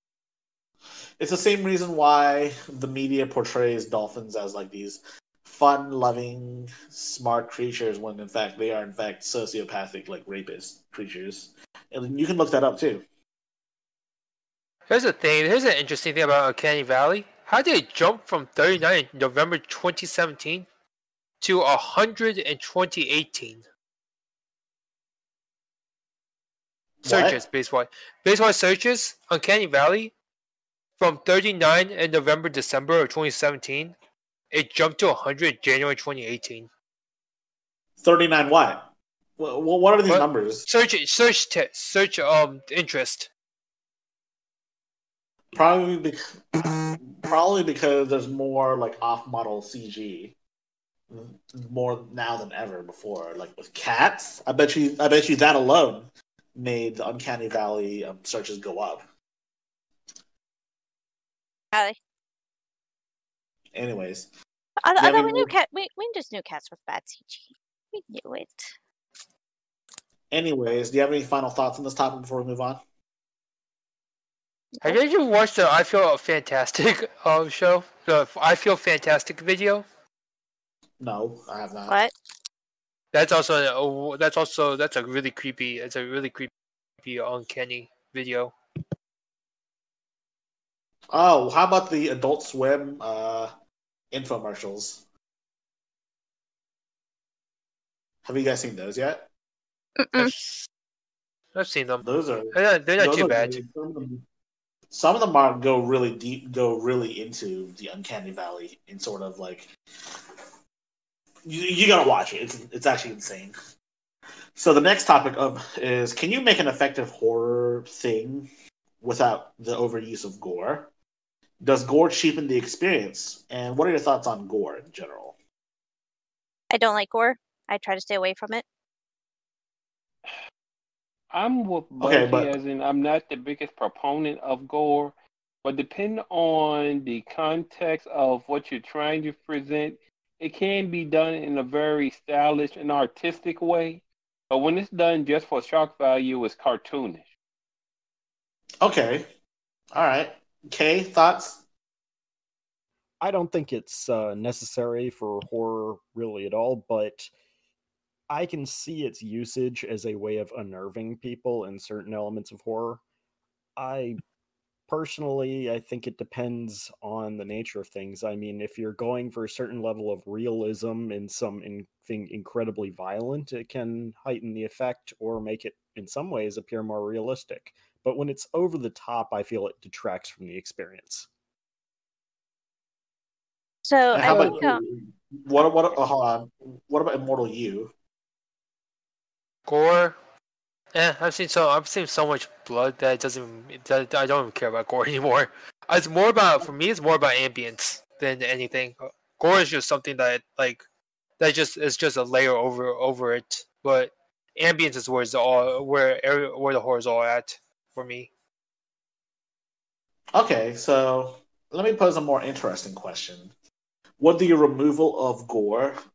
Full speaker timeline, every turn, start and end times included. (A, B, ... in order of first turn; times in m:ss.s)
0:01.2-0:13.0 A
0:14.9-0:20.7 B
0:21.4-0:23.6 B
0:27.0-0:27.4 A
0:27.0-0:30.1 B
0:31.0-0:33.9 B
0:34.5-0:36.7 B
0:38.0-0:40.7 A
0:40.1-0:43.3 B
0:45.5-0:50.3 A
0:51.1-0:59.0 A
1:01.7-1:02.0 C
1:03.7-1:04.3 A
1:04.8-1:08.7 C
1:05.0-1:05.5 A
1:10.3-1:12.8 A
1:14.8-1:19.8 B
1:21.0-1:22.0 A
1:23.1-1:28.5 B
1:31.1-1:33.5 A
1:34.1-1:35.0 A
1:38.2-1:39.3 A
1:40.0-1:40.3 C
1:40.2-1:40.7 B
1:41.5-1:43.6 B
1:42.0-1:44.2 A
1:44.9-1:49.7 A
1:51.4-1:53.5 A
1:54.6-1:58.5 A
1:59.0-2:00.9 A
2:01.6-2:05.4 A
2:06.7-2:08.6 C
2:11.3-2:27.2 D
2:12.0-2:12.5 A
2:28.8-2:29.3 A
2:29.9-2:31.6 A
2:33.2-2:37.3 E
2:38.3-2:43.0 E
2:43.8-2:44.2 E
2:44.9-3:01.3 E
3:03.8-3:04.8 C
3:04.1-3:07.9 A
3:09.7-3:10.2 B
3:10.9-3:20.8 B
3:21.4-3:28.3 B
3:30.3-3:33.5 A
3:34.2-3:36.0 A